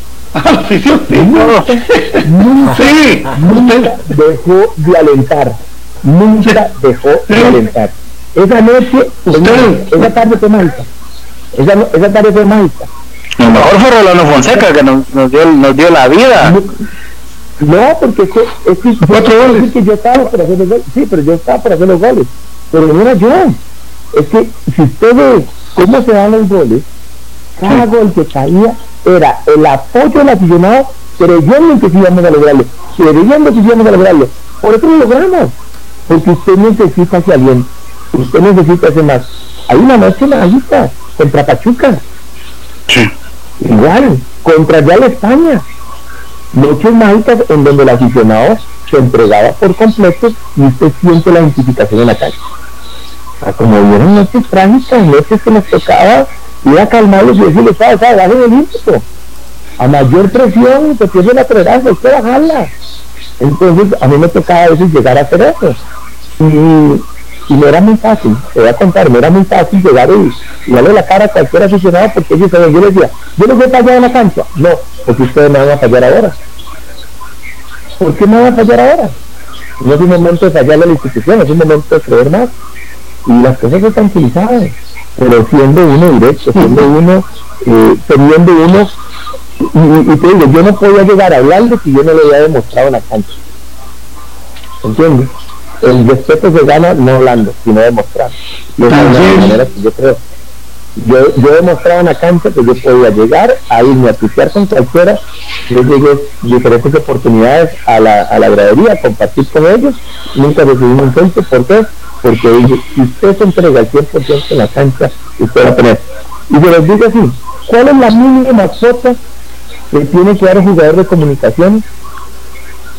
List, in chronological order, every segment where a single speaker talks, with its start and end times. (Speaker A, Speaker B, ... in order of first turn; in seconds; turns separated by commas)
Speaker A: 0.3-1.3, Speaker B: 1.1-10.9, Speaker C: 1.3-1.6, Speaker A: 1.9-4.0, Speaker A: 7.3-7.7, Speaker A: 9.3-10.1, Speaker B: 11.5-12.9, Speaker C: 13.4-16.6, Speaker B: 16.4-16.8, Speaker B: 17.6-23.6, Speaker A: 19.0-19.7, Speaker B: 24.1-26.9, Speaker B: 27.6-35.5, Speaker B: 36.1-42.0, Speaker B: 43.6-45.6, Speaker B: 46.5-52.4, Speaker B: 53.4-59.0, Speaker B: 59.8-62.7, Speaker B: 63.4-65.8, Speaker B: 66.4-76.4, Speaker B: 78.0-79.1, Speaker B: 79.8-82.5, Speaker B: 83.2-88.9, Speaker B: 89.6-93.4, Speaker B: 94.8-95.3, Speaker B: 95.8-100.2, Speaker A: 98.9-99.5, Speaker B: 101.0-119.2, Speaker B: 119.9-121.8